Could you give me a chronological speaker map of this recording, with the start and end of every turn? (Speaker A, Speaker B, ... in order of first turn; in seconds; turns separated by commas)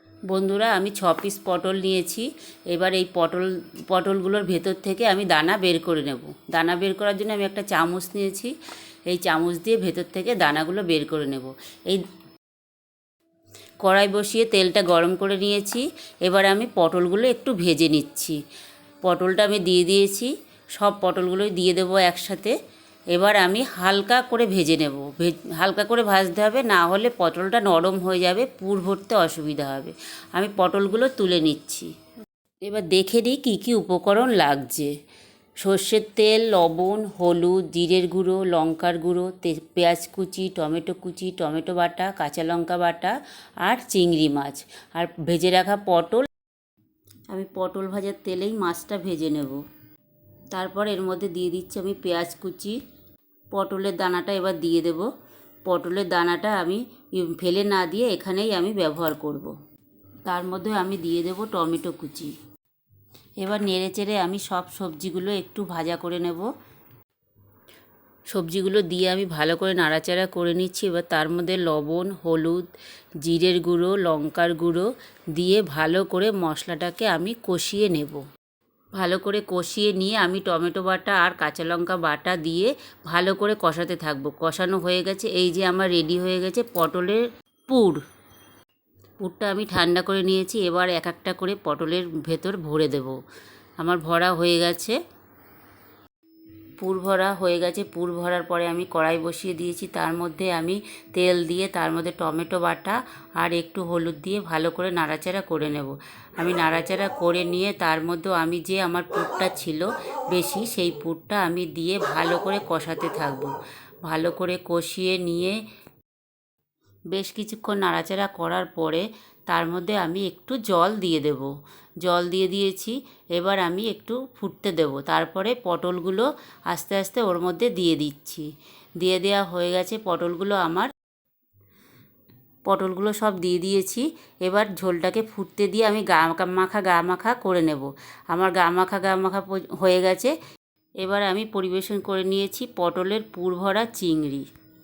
Speaker A: 0.3-8.5, Speaker A: 9.1-12.0, Speaker A: 13.8-18.4, Speaker A: 19.0-22.6, Speaker A: 23.1-31.9, Speaker A: 32.6-34.9, Speaker A: 35.6-46.3, Speaker A: 47.3-49.6, Speaker A: 50.5-52.8, Speaker A: 53.5-55.1, Speaker A: 55.7-59.5, Speaker A: 60.3-62.3, Speaker A: 63.4-66.5, Speaker A: 68.3-72.7, Speaker A: 73.2-78.2, Speaker A: 79.0-88.0, Speaker A: 89.2-93.2, Speaker A: 93.8-95.0, Speaker A: 96.8-113.5, Speaker A: 114.1-115.6, Speaker A: 117.1-121.5, Speaker A: 122.0-128.5, Speaker A: 129.0-130.9, Speaker A: 132.7-140.3, Speaker A: 141.0-144.5